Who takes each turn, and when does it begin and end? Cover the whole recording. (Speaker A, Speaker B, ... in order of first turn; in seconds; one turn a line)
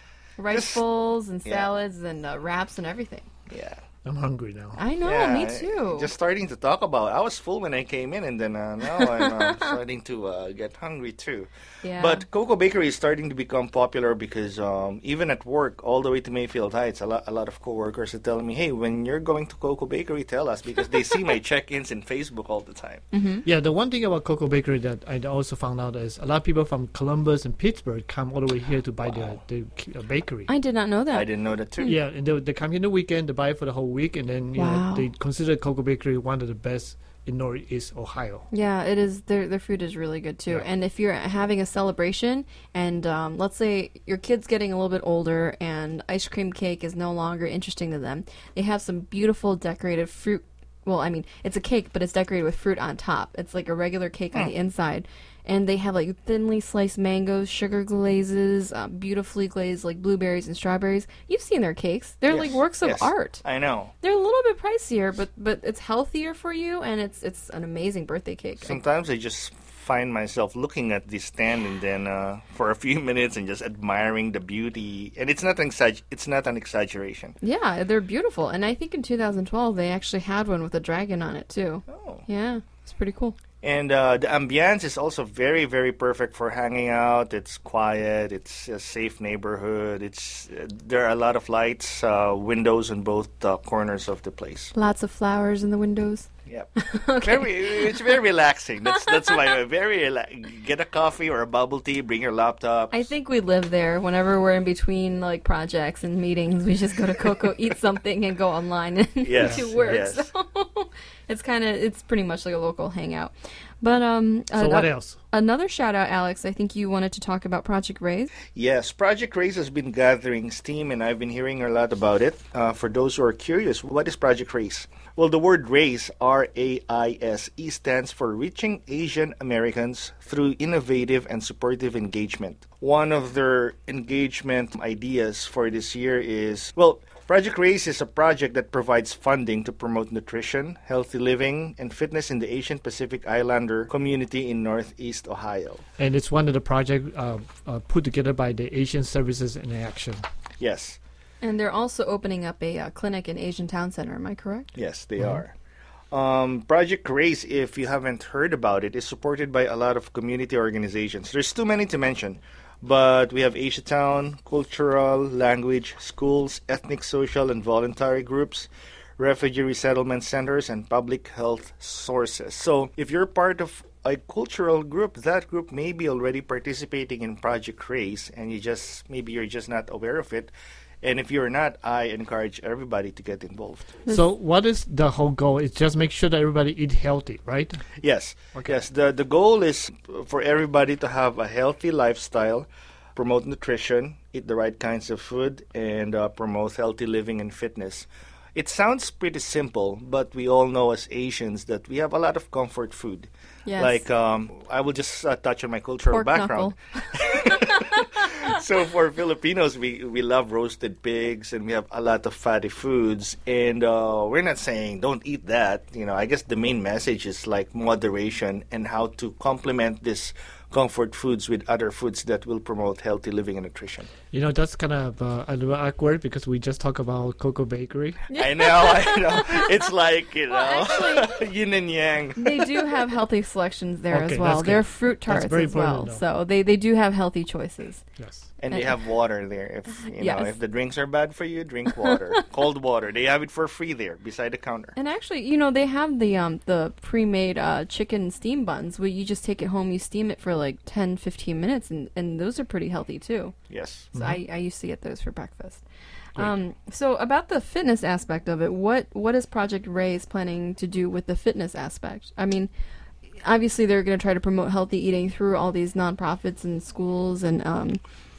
Speaker A: 0.4-3.3
Speaker B: 0.5-0.8
Speaker B: 3.5-3.8
Speaker C: 4.0-4.8
Speaker A: 4.8-6.1
Speaker B: 5.0-23.1
Speaker A: 9.0-9.7
Speaker A: 11.8-12.2
Speaker A: 23.1-23.4
Speaker C: 23.4-30.5
Speaker B: 29.1-29.4
Speaker A: 30.5-31.3
Speaker B: 31.1-31.9
Speaker C: 31.9-38.5
Speaker A: 34.6-35.1
Speaker A: 38.5-63.4
Speaker B: 62.3-63.9
Speaker A: 64.0-68.8
Speaker B: 68.6-77.3
Speaker A: 77.4-83.4
Speaker B: 81.9-82.2
Speaker B: 83.6-94.7
Speaker A: 94.7-98.2
Speaker B: 96.5-103.1
Speaker A: 98.9-99.5
Speaker A: 102.9-118.3
Speaker B: 109.2-110.3
Speaker C: 109.4-109.7
Speaker C: 114.5-115.2
Speaker B: 118.5-145.8
Speaker C: 146.0-150.2
Speaker B: 150.6-151.0
Speaker A: 151.4-154.7
Speaker B: 154.8-155.5
Speaker B: 156.1-184.0
Speaker C: 184.1-187.9
Speaker B: 188.0-224.1
Speaker A: 203.7-204.1
Speaker A: 206.1-208.5
Speaker C: 224.3-228.2
Speaker A: 228.3-229.8
Speaker B: 228.3-232.9
Speaker A: 230.5-231.3
Speaker A: 232.4-238.0
Speaker C: 234.1-236.2
Speaker C: 238.2-238.5
Speaker B: 238.6-245.0
Speaker A: 238.7-239.0
Speaker A: 240.2-240.6
Speaker A: 241.9-242.4
Speaker A: 244.9-253.6
Speaker B: 253.7-254.1
Speaker A: 254.1-255.8
Speaker A: 256.4-262.7
Speaker A: 263.4-268.0